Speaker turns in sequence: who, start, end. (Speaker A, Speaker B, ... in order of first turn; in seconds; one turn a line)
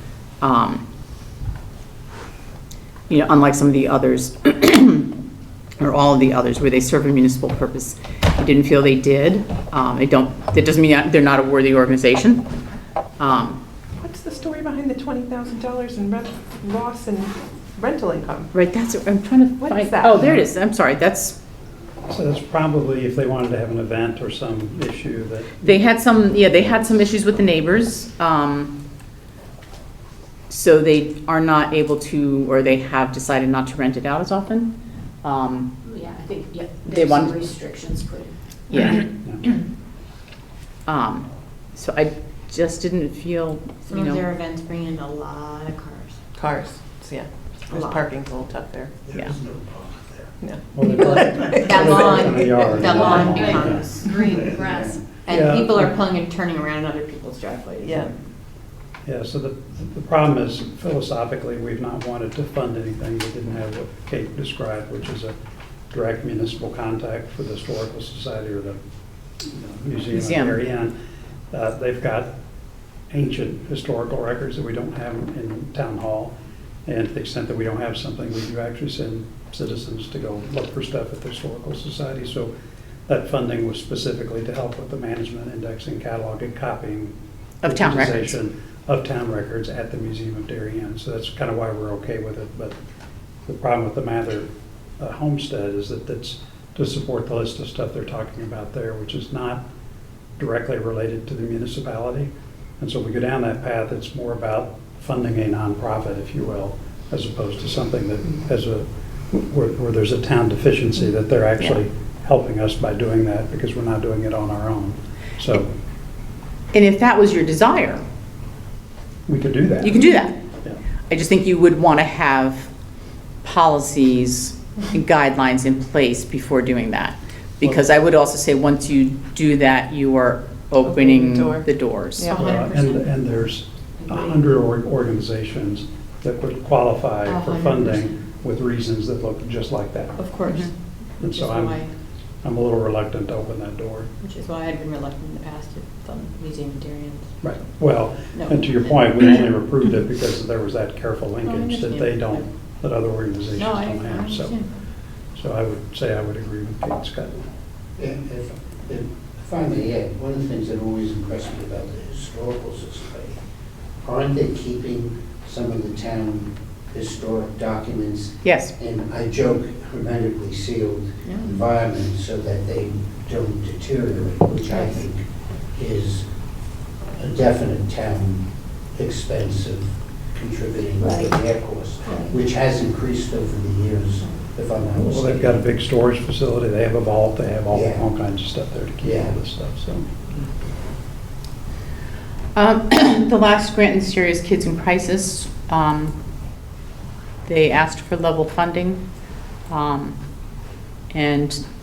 Speaker A: 0.4-0.8
Speaker A: 3.1-5.1
Speaker A: 5.8-12.4
Speaker A: 13.2-13.6
Speaker B: 14.0-18.5
Speaker A: 18.5-21.4
Speaker B: 19.6-20.5
Speaker C: 22.1-25.8
Speaker A: 25.6-28.8
Speaker A: 30.5-34.7
Speaker A: 35.2-35.7
Speaker D: 35.8-38.3
Speaker A: 36.9-37.4
Speaker A: 38.7-39.1
Speaker C: 39.1-39.4
Speaker A: 40.9-44.2
Speaker E: 43.9-46.2
Speaker B: 46.4-49.0
Speaker E: 47.7-48.1
Speaker F: 49.0-50.3
Speaker B: 50.4-52.7
Speaker C: 50.7-53.9
Speaker E: 50.8-54.4
Speaker D: 53.0-55.0
Speaker F: 54.3-55.0
Speaker E: 55.0-58.2
Speaker C: 55.3-55.9
Speaker B: 57.8-58.1
Speaker C: 59.0-65.3
Speaker C: 65.9-68.8
Speaker C: 69.4-70.9
Speaker A: 70.1-70.6
Speaker C: 71.5-72.3
Speaker C: 73.1-76.3
Speaker C: 76.9-82.5
Speaker C: 83.1-92.8
Speaker A: 87.6-88.3
Speaker C: 93.5-94.5
Speaker C: 95.0-99.6
Speaker C: 100.4-115.7
Speaker A: 116.7-118.0
Speaker C: 119.3-120.0
Speaker A: 119.8-120.4
Speaker A: 121.1-122.7
Speaker A: 123.4-132.3
Speaker B: 130.8-132.5
Speaker E: 132.3-133.3
Speaker C: 132.3-140.2
Speaker E: 137.2-138.1
Speaker E: 140.2-141.9
Speaker C: 141.2-141.8
Speaker C: 142.4-144.1
Speaker E: 144.2-147.5
Speaker C: 147.4-154.6
Speaker E: 148.3-148.6
Speaker E: 151.4-152.3
Speaker E: 153.5-154.7
Speaker C: 155.3-157.5
Speaker F: 158.0-163.4
Speaker F: 164.0-176.3
Speaker A: 168.4-168.7
Speaker E: 171.2-171.6
Speaker F: 177.1-185.6
Speaker D: 181.0-181.3
Speaker C: 184.9-190.1
Speaker F: 187.7-188.1
Speaker F: 189.0-189.4
Speaker A: 192.5-196.2
Speaker A: 197.4-199.0
Speaker A: 199.7-200.2
Speaker A: 201.1-201.6